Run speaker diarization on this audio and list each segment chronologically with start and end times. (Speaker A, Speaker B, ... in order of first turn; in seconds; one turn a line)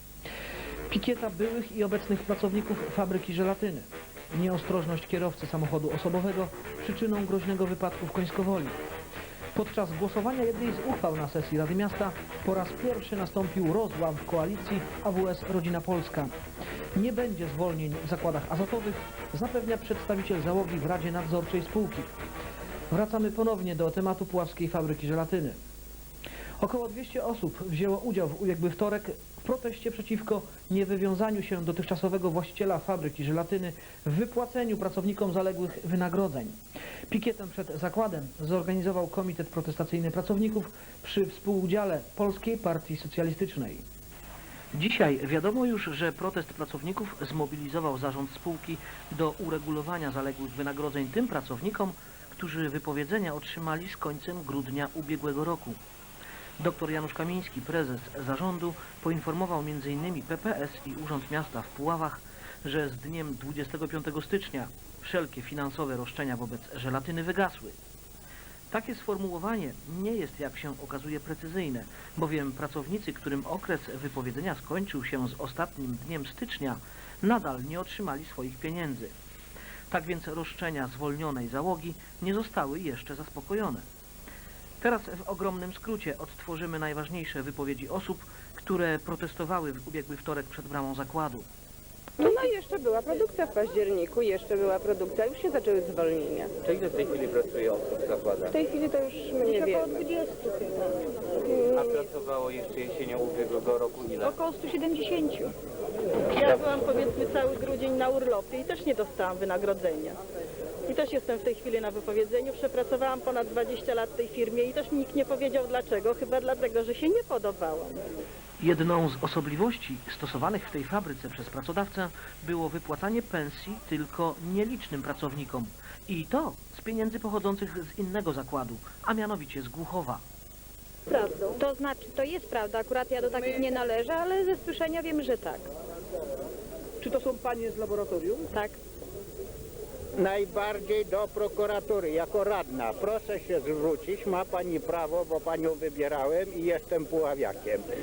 Speaker A: 0.9-8.8
Speaker A: 9.5-16.3
Speaker A: 16.9-22.1
Speaker A: 22.9-25.6
Speaker A: 26.6-36.6
Speaker A: 37.1-43.8
Speaker A: 44.7-55.8
Speaker A: 56.6-67.8
Speaker A: 68.7-79.1
Speaker A: 79.9-83.8
Speaker A: 84.8-91.5
Speaker B: 92.2-96.5
Speaker C: 96.6-98.6
Speaker B: 98.5-100.3
Speaker C: 99.5-100.0
Speaker B: 101.5-101.9
Speaker C: 101.7-104.4
Speaker D: 104.7-105.1
Speaker E: 106.3-110.2
Speaker E: 110.9-118.1
Speaker A: 118.6-130.2
Speaker D: 131.1-135.7
Speaker D: 138.5-138.8
Speaker F: 140.2-147.8